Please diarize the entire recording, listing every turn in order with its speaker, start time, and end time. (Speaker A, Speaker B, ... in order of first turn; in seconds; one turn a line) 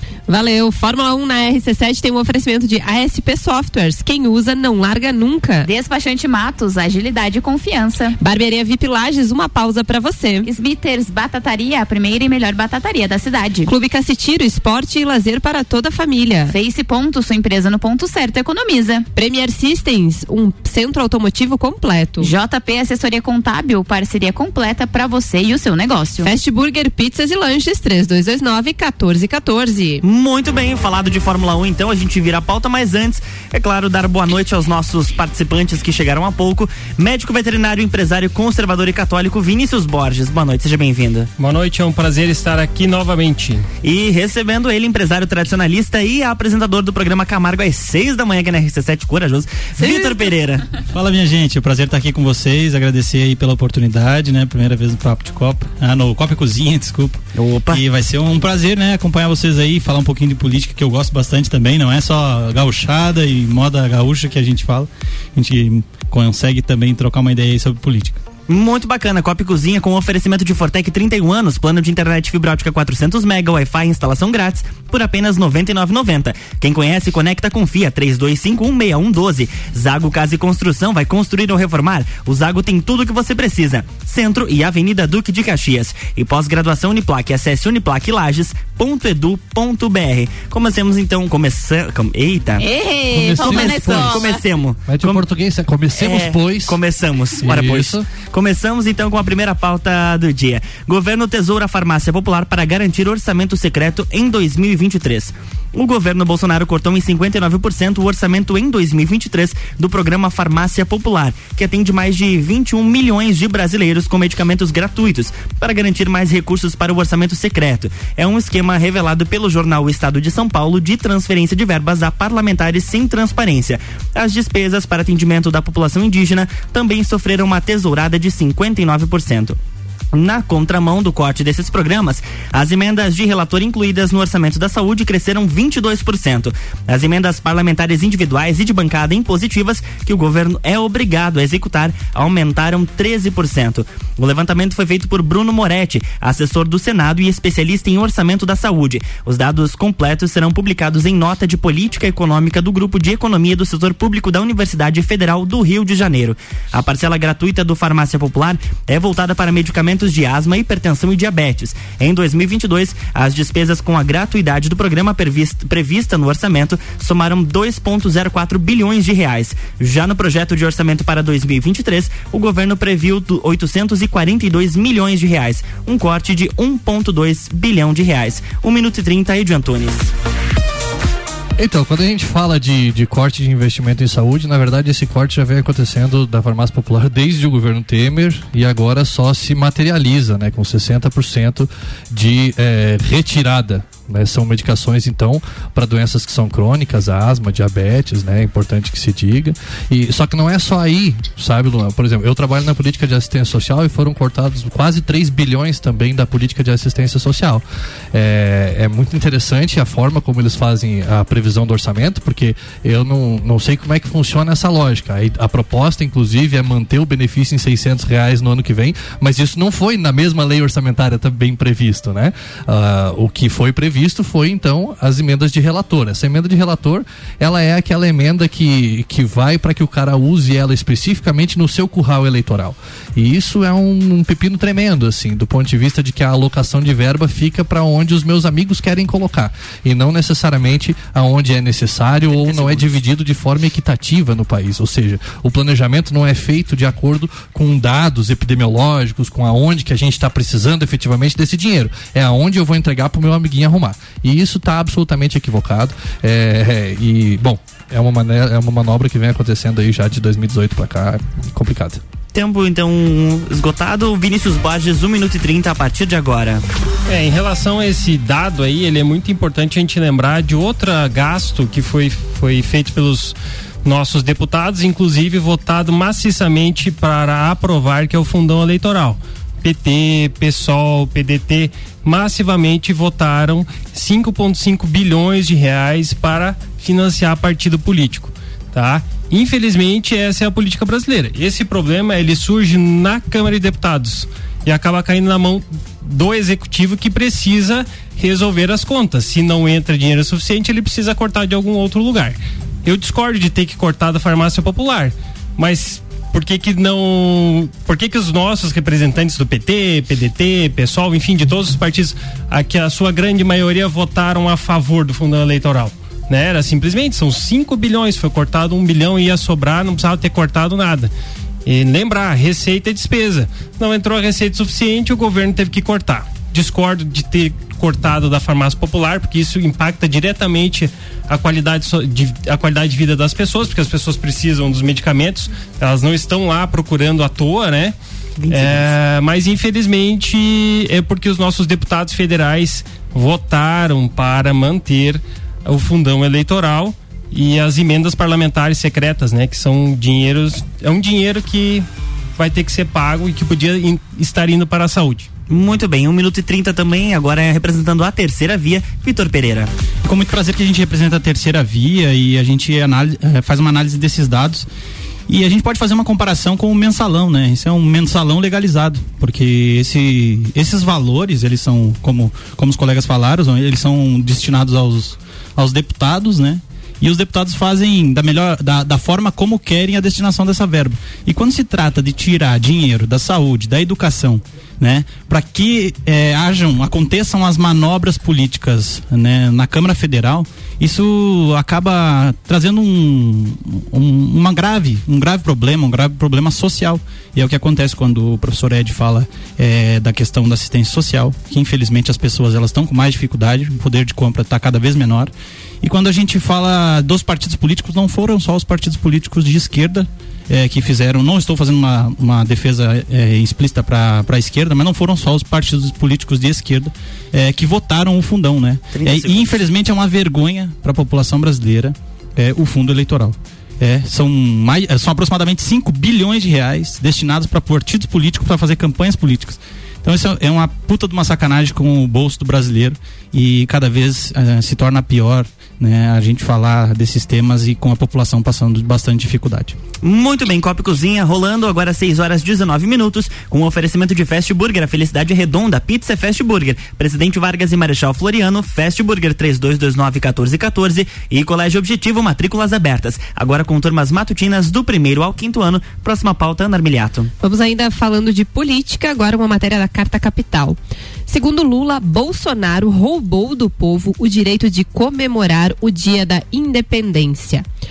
Speaker A: 0.3-5.7
Speaker B: 5.6-8.2
Speaker A: 8.2-10.5
Speaker B: 10.4-13.7
Speaker A: 13.7-16.5
Speaker B: 16.5-19.1
Speaker A: 19.1-22.3
Speaker B: 22.2-26.3
Speaker A: 26.2-30.0
Speaker C: 30.0-41.3
Speaker D: 41.4-43.7
Speaker C: 43.8-50.7
Speaker B: 49.9-50.3
Speaker E: 50.9-68.2
Speaker C: 57.4-57.8
Speaker C: 68.5-92.7
Speaker B: 92.6-94.4
Speaker F: 93.1-94.3
Speaker C: 93.4-95.3
Speaker F: 94.9-96.8
Speaker C: 95.9-129.6
Speaker F: 97.4-98.1
Speaker C: 130.1-180.1
Speaker F: 181.6-262.0
Speaker C: 262.3-266.6
Speaker D: 267.1-321.1
Speaker D: 321.6-337.9
Speaker C: 338.4-338.9
Speaker D: 338.5-351.9
Speaker D: 352.4-355.3
Speaker C: 355.5-359.7
Speaker E: 360.0-364.7
Speaker E: 365.3-439.8
Speaker C: 418.9-419.7
Speaker C: 440.0-457.3
Speaker A: 457.4-467.6